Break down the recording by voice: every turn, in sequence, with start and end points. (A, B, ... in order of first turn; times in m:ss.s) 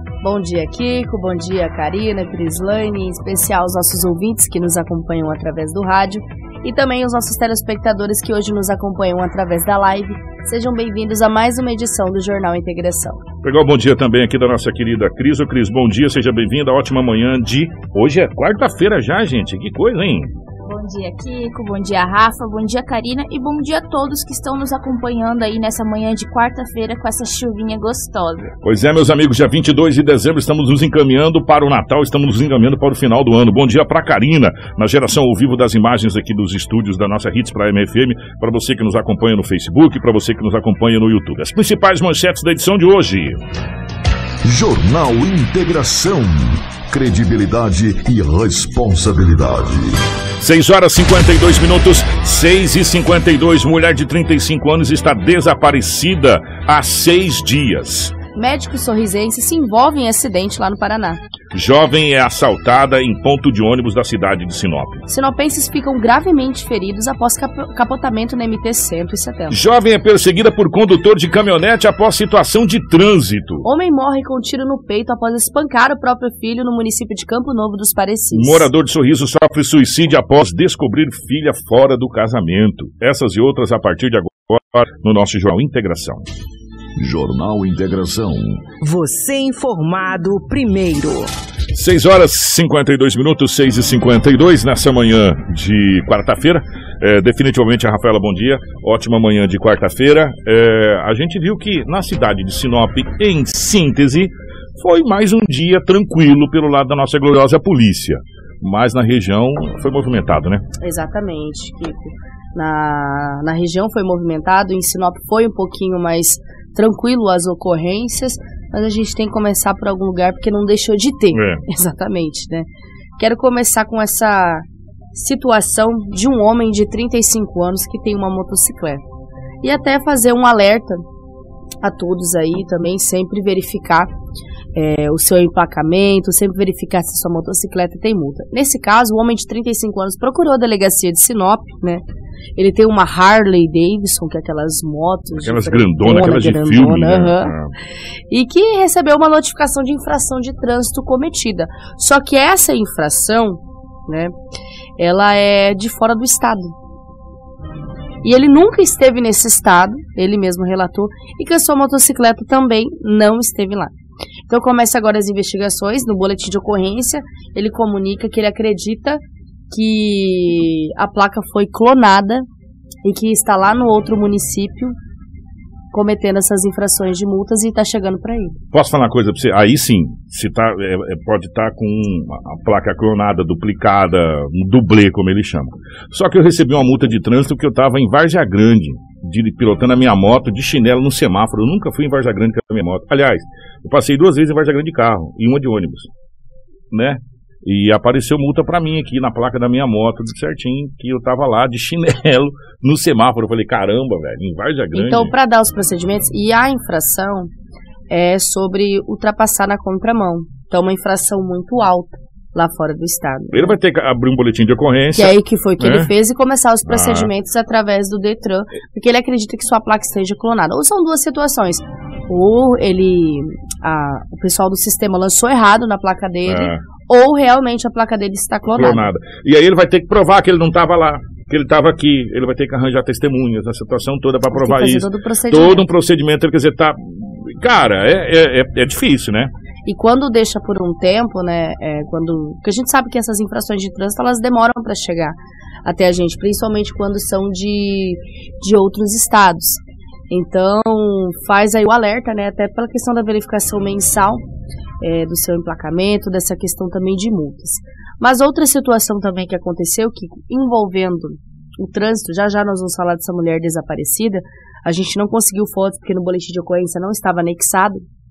0:00.2-0:13.2 A
0:13.4-0:20.3 B
0:20.7-0:28.5 C
0:28.6-0:43.4 B
0:44.4-0:50.0 D
0:50.4-0:58.2 B
0:58.4-1:01.2 A
1:01.5-1:05.0 B
1:05.1-1:09.6 A
1:09.5-1:13.7 B
1:13.6-1:18.7 A
1:18.3-1:26.3 B
1:27.0-1:28.7 D
1:28.8-1:31.3 E
1:31.7-1:50.7 B
1:50.8-2:02.7 A
2:01.3-2:01.6 B
2:03.2-2:09.0 A
2:09.6-2:11.0 A
2:11.8-2:14.1 A
2:14.8-2:22.0 A
2:22.6-2:27.5 A
2:25.4-2:27.7 B
2:28.3-2:34.4 A
2:35.0-2:36.8 A
2:38.2-2:43.9 A
2:44.5-2:52.5 A
2:53.0-2:55.0 A
2:55.9-2:58.6 A
2:58.7-3:16.1 B
3:16.9-3:25.3 B
3:24.9-3:27.5 A
3:28.1-3:33.8 A
3:33.5-3:36.1 B
3:35.2-3:49.1 A
3:36.9-3:37.3 B
3:46.5-3:46.8 B
3:48.8-3:59.5 B
3:54.5-3:55.9 A
3:59.9-4:14.4 A
4:15.0-4:28.0 A